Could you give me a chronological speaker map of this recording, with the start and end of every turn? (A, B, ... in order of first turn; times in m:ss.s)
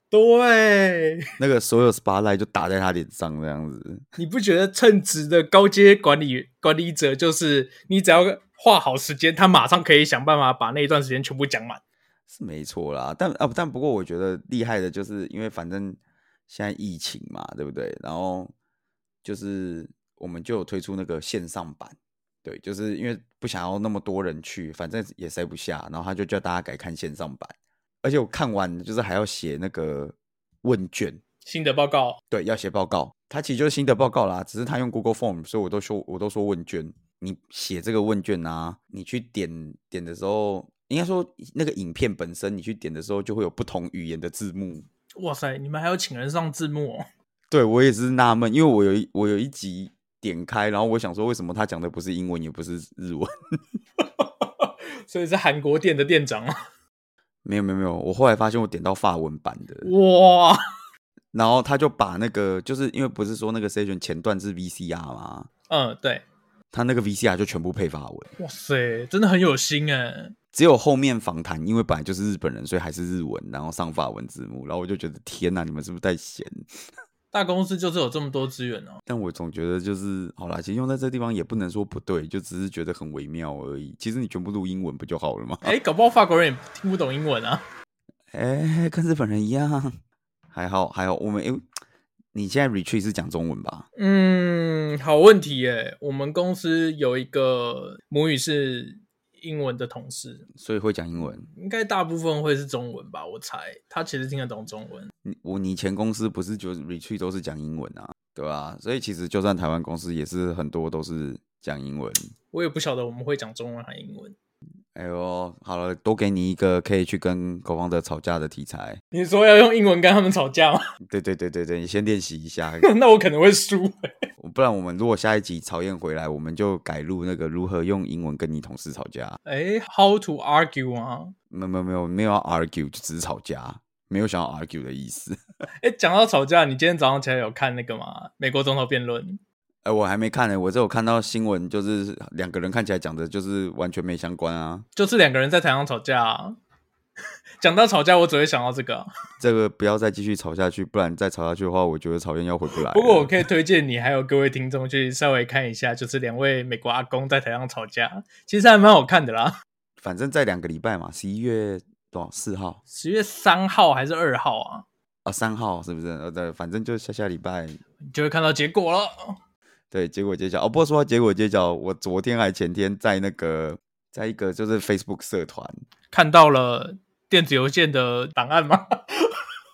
0:00.1-0:01.3 A
0:01.4-0:04.0 B
0:04.2-0:11.8 A
0:12.3-0:18.5 B
0:19.2-0:31.2 B
0:31.4-0:32.2 A
0:32.3-0:44.9 B
0:45.2-0:47.0 A
0:47.5-0:53.3 B
0:54.2-0:56.6 A
0:57.4-0:59.9 B
0:59.8-1:00.6 A
1:01.3-1:05.5 B
1:05.7-1:06.2 A
1:06.7-1:08.3 B
1:08.4-1:10.3 A
1:10.5-1:16.7 B
1:17.3-1:19.0 A
1:19.1-1:25.8 B
1:25.6-1:27.6 A
1:28.3-1:30.0 B
1:30.5-1:31.6 B
1:32.3-1:33.9 B
1:34.0-1:40.5 A
1:40.6-1:41.5 B
1:41.2-1:45.1 A
1:45.2-1:52.3 B
1:52.5-1:54.4 A
1:55.0-1:59.0 B
1:59.1-2:00.8 A
2:01.1-2:02.9 B
2:02.8-2:04.1 A
2:04.4-2:09.4 B
2:09.5-2:11.3 A
2:11.5-2:15.4 B
2:15.8-2:19.4 A
2:19.8-2:24.8 B
2:25.0-2:26.6 A
2:27.6-2:29.1 A
2:29.4-2:33.4 B
2:32.8-2:39.5 A
2:40.0-2:42.8 B
2:42.9-2:44.9 A
2:45.3-2:47.8 B
2:48.1-2:49.4 A
2:49.9-2:55.8 B
2:56.1-2:59.3 A